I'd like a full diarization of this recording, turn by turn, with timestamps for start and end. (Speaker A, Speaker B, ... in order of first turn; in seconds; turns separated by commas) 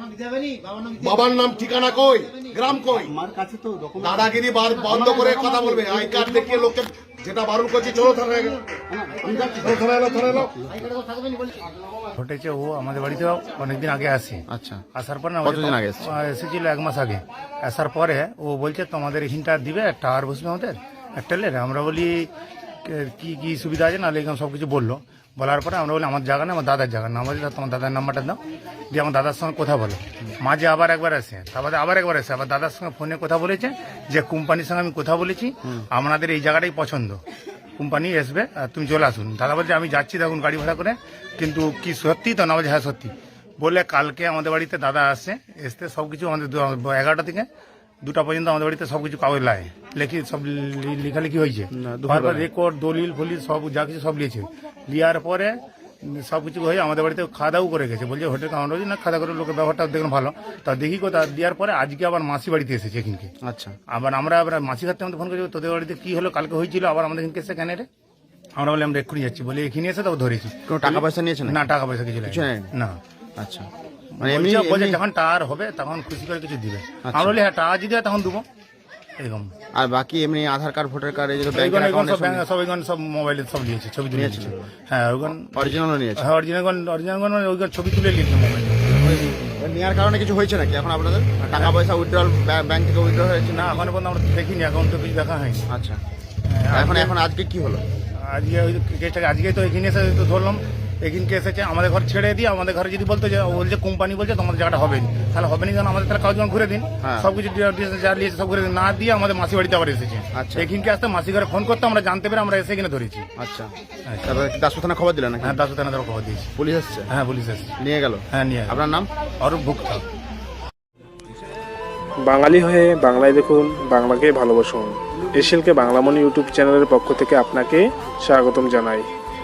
Speaker A: 0.8-3.1, Speaker B: 3.0-6.3, Speaker A: 4.0-8.6, Speaker B: 8.9-10.9, Speaker A: 9.2-10.5, Speaker C: 12.2-14.4, Speaker D: 14.5-14.8, Speaker C: 14.9-22.3, Speaker D: 15.4-16.1, Speaker C: 22.8-28.4, Speaker C: 28.9-37.2, Speaker C: 37.8-47.5, Speaker C: 48.0-63.3, Speaker D: 51.7-52.5, Speaker D: 63.4-63.7, Speaker C: 63.9-67.8, Speaker C: 68.6-73.0, Speaker D: 70.7-71.6, Speaker D: 72.2-72.7, Speaker D: 73.4-73.7, Speaker C: 74.2-78.4, Speaker D: 74.2-75.0, Speaker D: 77.0-77.4, Speaker C: 79.2-79.5, Speaker D: 79.7-82.4, Speaker C: 81.5-89.0, Speaker D: 84.1-84.7, Speaker D: 85.5-86.2, Speaker D: 88.9-93.9, Speaker C: 91.4-91.8, Speaker C: 93.5-95.6, Speaker D: 95.7-96.0, Speaker C: 96.4-97.1, Speaker D: 96.7-97.8, Speaker C: 98.1-113.3, Speaker D: 107.0-107.3, Speaker D: 110.3-110.7, Speaker D: 113.4-113.7, Speaker D: 114.2-115.6, Speaker C: 115.4-116.5, Speaker D: 116.6-117.1, Speaker C: 117.1-117.7, Speaker D: 117.8-119.1, Speaker C: 118.3-118.9, Speaker C: 119.4-120.0, Speaker E: 122.2-129.0